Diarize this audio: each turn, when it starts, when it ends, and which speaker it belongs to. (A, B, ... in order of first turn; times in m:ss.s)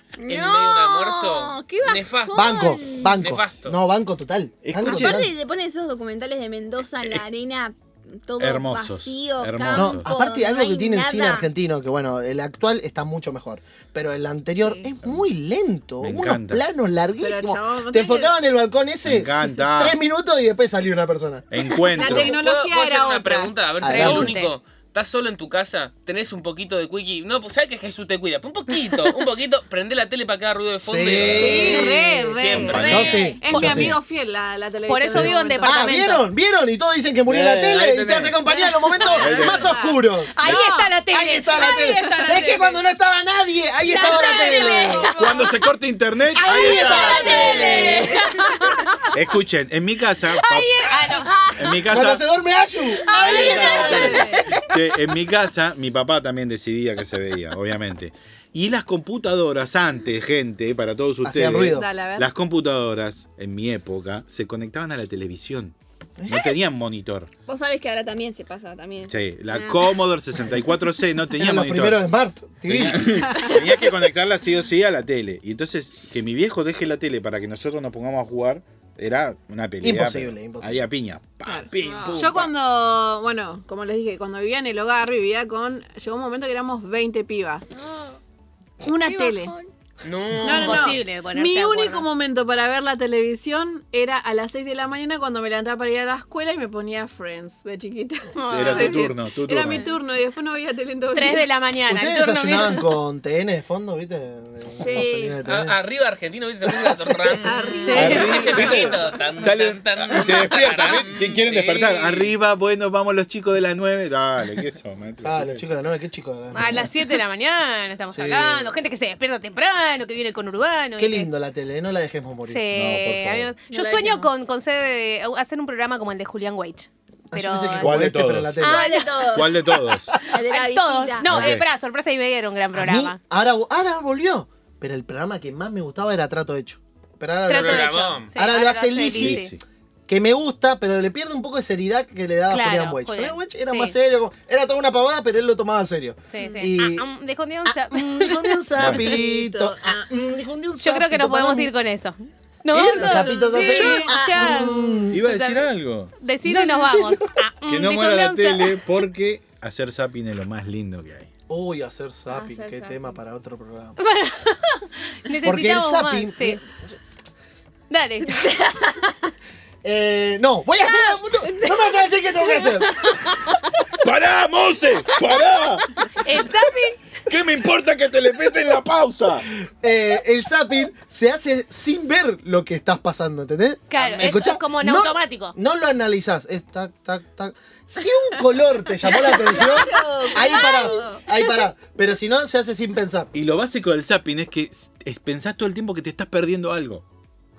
0:00.2-0:03.2 A
0:00.2-0:03.8 B
0:02.3-0:05.3 C
0:04.6-0:05.3 D
0:04.8-0:11.5 A
0:08.4-0:10.1 D
0:09.7-0:21.5 C
0:14.6-0:14.9 E
0:16.0-0:16.6 D
0:17.2-0:18.3 E
0:19.0-0:20.0 D
0:21.5-0:22.4 D
0:21.8-0:23.6 E
0:22.0-0:33.4 B
0:23.8-0:24.4 C
0:23.8-0:24.5 F
0:30.8-0:33.9 C
0:31.1-0:31.6 D
0:31.3-0:35.9 E
0:32.5-0:34.0 D
0:34.9-0:36.3 F
0:35.1-0:40.5 C
0:37.3-0:38.4 D
0:38.5-0:41.0 E
0:39.1-0:39.8 D
0:40.4-0:42.8 F
0:41.1-0:45.1 C
0:43.8-0:45.6 F
0:45.1-0:48.0 D
0:46.3-0:49.0 F
0:46.5-0:48.0 A
0:46.5-0:48.4 E
0:47.1-0:47.9 C
0:49.1-0:51.0 D
0:50.4-0:51.8 F
0:51.6-0:52.2 D
0:51.9-0:54.2 C
0:53.1-0:54.5 F
0:53.1-0:54.6 E
0:53.1-1:05.7 D
0:53.2-0:54.2 A
1:01.2-1:01.9 C
1:01.7-1:02.3 E
1:06.2-1:06.6 C
1:06.3-1:07.3 D
1:07.5-1:10.0 A
1:09.1-1:12.0 D
1:11.4-1:13.5 C
1:12.6-1:22.5 D
1:13.1-1:13.8 E
1:19.8-1:20.8 C
1:21.4-1:27.7 E
1:21.9-1:22.2 B
1:28.8-1:29.6 E
1:29.1-1:29.6 A
1:30.0-1:31.0 B
1:30.4-1:32.1 F
1:30.4-1:41.5 E
1:38.4-1:39.1 F
1:38.5-1:39.8 D
1:41.1-1:42.9 F
1:41.9-1:45.8 C
1:44.8-1:45.1 E
1:44.9-1:45.4 A
1:45.4-1:52.3 B
1:46.6-1:47.5 C
1:47.4-1:49.1 E
1:47.8-1:48.7 F
1:47.9-1:55.6 D
1:55.2-1:56.9 C
1:56.5-2:01.3 F
1:58.1-1:58.7 C
2:01.0-2:02.6 C
2:02.5-2:08.1 F
2:02.7-2:03.6 D
2:03.7-2:04.4 E
2:07.3-2:08.9 C
2:07.8-2:08.6 D
2:08.6-2:09.5 F
2:08.6-2:11.6 A
2:09.3-2:10.3 D
2:10.4-2:13.2 F
2:11.2-2:11.6 D
2:12.7-2:19.5 C
2:17.5-2:19.5 F
2:17.5-2:18.3 B
2:19.1-2:19.6 D
2:20.1-2:27.1 C
2:22.5-2:23.9 F
2:26.3-2:28.6 F
2:27.6-2:31.7 C
2:28.8-2:29.2 D
2:28.8-2:30.1 E
2:30.8-2:38.8 F
2:32.7-2:35.2 C
2:32.9-2:34.8 E
2:35.1-2:36.1 D
2:36.4-2:37.3 C
2:37.6-2:41.3 D
2:41.5-2:44.0 C
2:42.3-2:43.0 A
2:44.0-2:46.6 F
2:45.4-2:46.7 C
2:47.9-2:48.9 F
2:49.8-2:53.1 C
2:52.6-2:53.5 F
2:54.0-2:56.6 D
2:56.1-2:57.0 F
2:57.3-2:59.5 D
2:59.7-3:13.3 C
3:03.9-3:05.6 F
3:04.0-3:04.4 B
3:09.1-3:11.2 E
3:10.4-3:11.1 A
3:13.3-3:17.0 D